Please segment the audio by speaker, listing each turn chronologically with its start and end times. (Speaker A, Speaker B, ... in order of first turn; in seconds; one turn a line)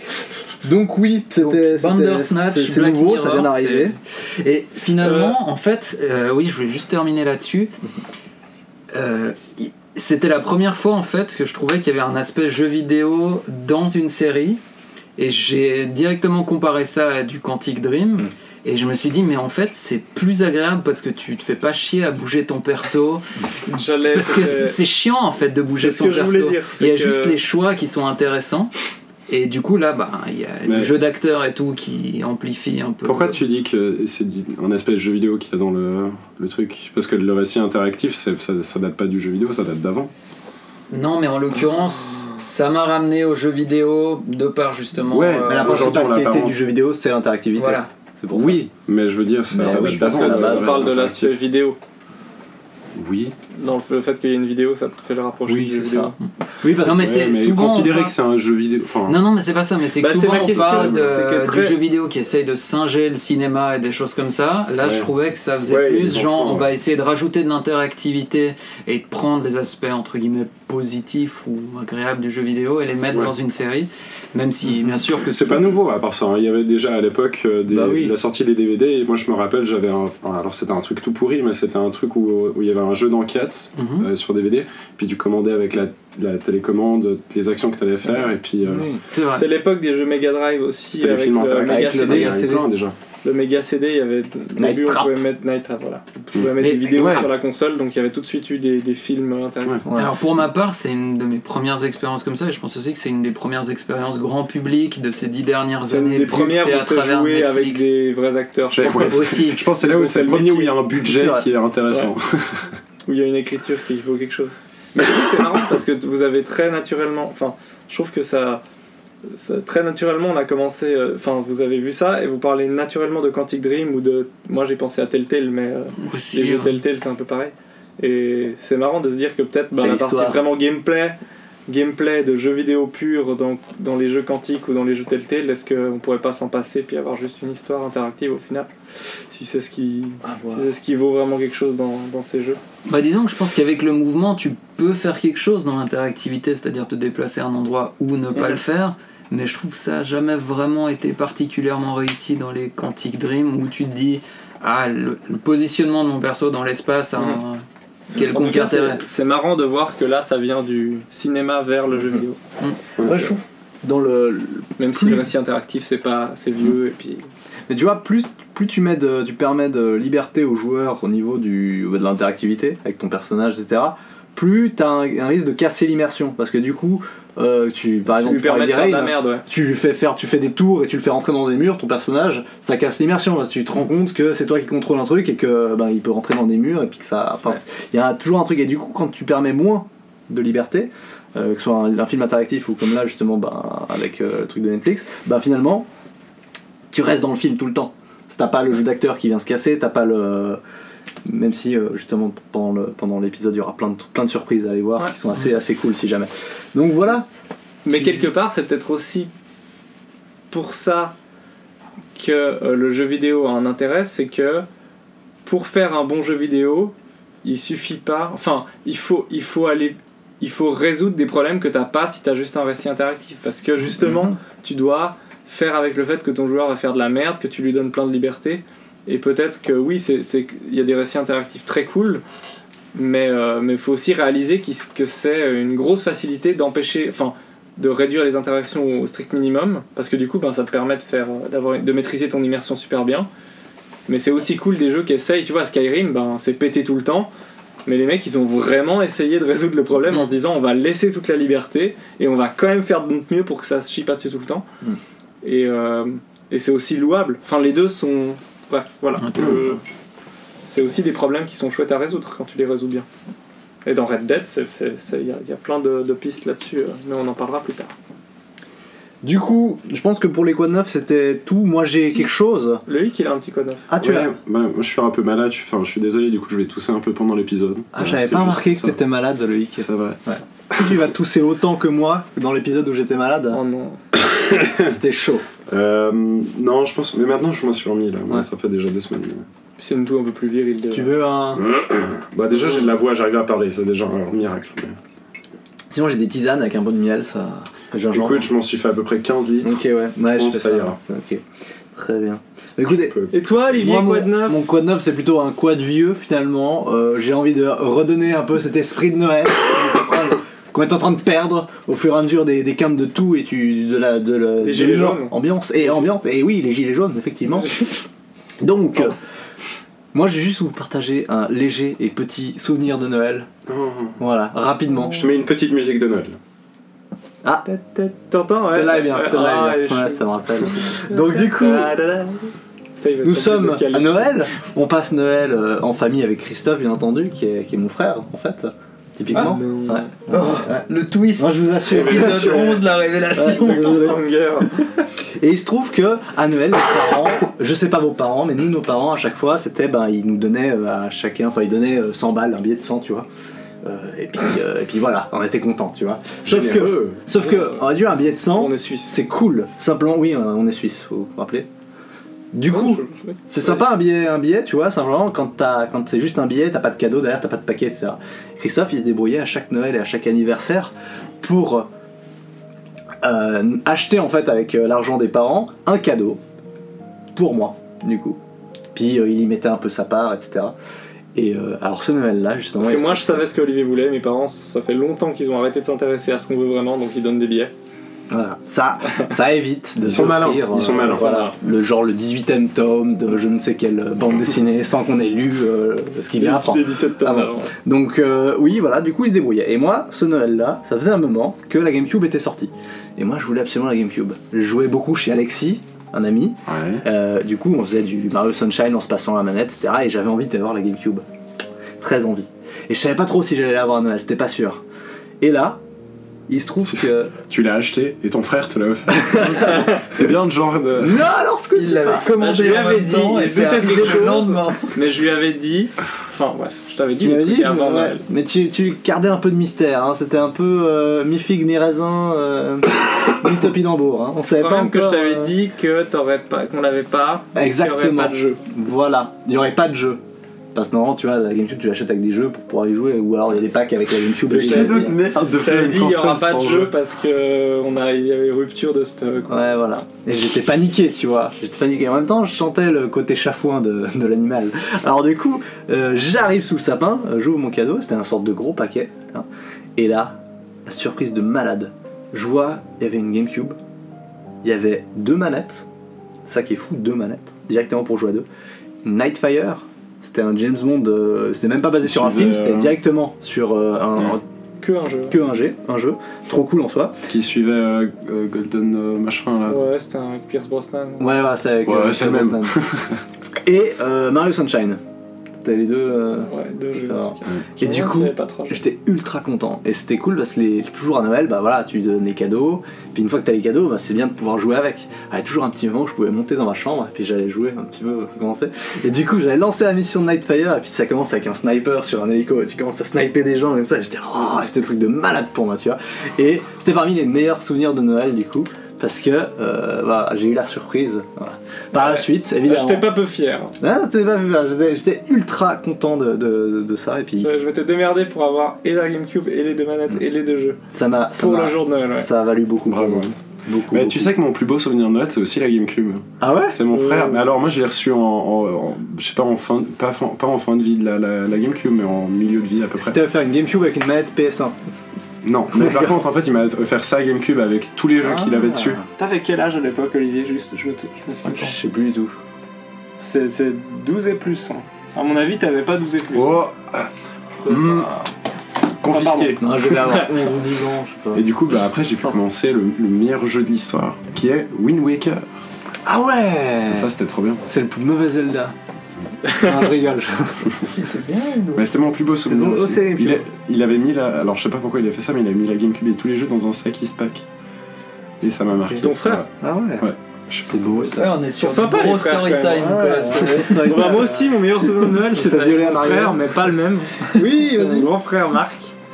Speaker A: 0.6-3.9
Speaker B: 1.4-7.7
Speaker C: 5.0-5.4
Speaker B: 8.9-14.6
Speaker B: 15.2-23.2
Speaker C: 23.7-24.8
Speaker B: 24.0-28.7
Speaker C: 25.7-27.4
Speaker B: 29.3-33.4
Speaker D: 30.6-30.9
Speaker D: 33.0-40.1
Speaker B: 40.9-45.9
Speaker D: 45.1-46.6
Speaker A: 45.5-48.6
Speaker B: 47.5-47.9
Speaker D: 48.3-51.3
Speaker A: 49.5-51.0
Speaker C: 49.6-51.8
Speaker D: 53.0-53.3
Speaker C: 53.5-56.1
Speaker A: 55.5-57.2
Speaker B: 56.7-58.1
Speaker D: 56.8-59.2
Speaker B: 59.0-75.7
Speaker C: 60.0-61.8
Speaker D: 60.3-61.1
Speaker D: 64.8-65.1
Speaker D: 65.7-66.7
Speaker D: 75.2-88.9
Speaker A: 77.7-78.2
Speaker B: 83.8-84.1
Speaker A: 88.6-89.0
Speaker B: 89.1-89.5
Speaker C: 89.3-92.5
Speaker D: 90.9-92.9
Speaker A: 91.6-92.7
Speaker C: 93.2-99.8
Speaker A: 94.5-95.1
Speaker D: 96.3-97.3
Speaker B: 96.6-97.2
Speaker A: 99.8-100.2
Speaker B: 99.9-107.9
Speaker C: 105.9-110.8
Speaker D: 108.7-112.7
Speaker B: 109.0-109.7
Speaker A: 111.0-111.5
Speaker C: 113.0-118.6
Speaker C: 119.2-138.7
Speaker B: 126.0-126.8
Speaker A: 129.8-130.4
Speaker C: 139.3-142.6
Speaker A: 140.2-140.7
Speaker B: 142.9-159.0
Speaker C: 148.3-148.6
Speaker C: 158.2-162.4
Speaker A: 162.0-162.2
Speaker A: 163.0-165.3
Speaker C: 164.8-167.3
Speaker A: 167.7-195.9
Speaker C: 178.2-179.4
Speaker A: 196.9-200.6
Speaker A: 201.2-207.3
Speaker C: 207.8-209.3
Speaker C: 210.5-211.1
Speaker C: 212.1-214.7
Speaker C: 215.4-232.2
Speaker C: 232.9-243.3
Speaker C: 244.1-247.3
Speaker C: 247.8-254.6
Speaker C: 255.4-259.8
Speaker B: 259.2-259.8
Speaker C: 260.6-263.1
Speaker C: 263.8-267.9
Speaker A: 269.2-272.8
Speaker C: 272.9-273.9
Speaker A: 273.9-274.3
Speaker D: 274.0-279.0
Speaker A: 277.9-283.6
Speaker D: 279.8-280.2
Speaker D: 280.7-281.0
Speaker C: 283.5-284.0
Speaker D: 284.3-284.9
Speaker A: 284.8-285.4
Speaker D: 285.7-289.4
Speaker C: 289.8-291.1
Speaker A: 290.9-291.6
Speaker D: 291.6-295.0
Speaker A: 295.9-298.5
Speaker D: 298.1-301.0
Speaker A: 299.6-317.8
Speaker D: 303.0-303.6
Speaker C: 303.3-304.6
Speaker C: 314.6-316.1
Speaker C: 317.6-317.9
Speaker A: 318.6-319.2
Speaker A: 320.1-323.5
Speaker D: 323.7-324.2
Speaker A: 324.2-325.2
Speaker D: 325.1-326.4
Speaker C: 327.6-334.5
Speaker A: 328.6-331.9
Speaker A: 333.2-344.6
Speaker C: 339.3-340.1
Speaker E: 340.3-344.1
Speaker D: 341.9-342.8
Speaker C: 343.4-344.9
Speaker A: 345.4-353.3
Speaker A: 353.8-361.7
Speaker D: 356.4-357.2
Speaker C: 357.3-357.9
Speaker C: 358.5-359.2
Speaker A: 362.5-371.9
Speaker C: 362.7-363.8
Speaker A: 373.2-376.4
Speaker A: 377.3-378.4
Speaker A: 378.9-380.8
Speaker A: 381.3-383.5
Speaker C: 382.8-387.7
Speaker A: 388.3-411.2
Speaker D: 390.0-391.5
Speaker C: 390.8-391.5
Speaker C: 396.4-397.7
Speaker D: 406.7-407.0
Speaker A: 412.0-414.8
Speaker A: 415.4-415.8
Speaker A: 416.5-417.3
Speaker D: 417.5-421.2
Speaker A: 419.1-420.2
Speaker A: 420.9-422.3
Speaker E: 421.8-425.0
Speaker C: 422.4-428.2
Speaker A: 424.0-424.3
Speaker A: 427.2-435.5
Speaker C: 434.5-438.6
Speaker A: 437.5-440.2
Speaker A: 440.7-445.2
Speaker D: 444.4-446.9
Speaker C: 444.6-449.6
Speaker A: 449.5-463.8
Speaker A: 464.6-465.9
Speaker A: 466.4-468.4
Speaker A: 469.0-474.4
Speaker D: 472.0-472.9
Speaker C: 474.8-475.4
Speaker A: 475.3-477.2
Speaker D: 477.3-479.8
Speaker C: 479.7-481.4
Speaker A: 481.2-483.1
Speaker D: 481.8-483.2
Speaker A: 483.6-485.0
Speaker A: 485.6-513.1
Speaker C: 486.4-488.8
Speaker C: 511.9-513.7
Speaker A: 513.8-517.6
Speaker C: 517.4-520.8
Speaker A: 520.9-524.3
Speaker C: 521.4-522.3
Speaker D: 522.9-523.3
Speaker D: 523.9-533.2
Speaker A: 526.4-527.5
Speaker A: 533.0-534.7
Speaker D: 535.4-539.0
Speaker A: 535.7-536.2
Speaker A: 538.2-539.0
Speaker C: 539.1-541.8
Speaker A: 541.3-542.3
Speaker C: 543.2-546.6
Speaker D: 546.3-547.1
Speaker C: 547.6-548.3
Speaker D: 547.6-548.1
Speaker D: 549.0-549.6
Speaker C: 549.0-550.3
Speaker A: 549.6-551.4
Speaker D: 551.3-555.5
Speaker A: 556.0-557.1
Speaker D: 556.9-557.6
Speaker A: 557.6-558.7
Speaker A: 559.5-560.8
Speaker E: 560.9-561.9
Speaker D: 561.7-567.4
Speaker A: 562.5-563.5
Speaker D: 568.4-569.5
Speaker A: 568.8-569.1
Speaker C: 569.0-569.4
Speaker A: 569.6-570.1
Speaker D: 570.0-571.3
Speaker A: 570.6-571.4
Speaker E: 571.1-574.3
Speaker C: 571.5-578.9
Speaker A: 572.7-574.6
Speaker A: 575.2-576.6
Speaker A: 577.3-578.1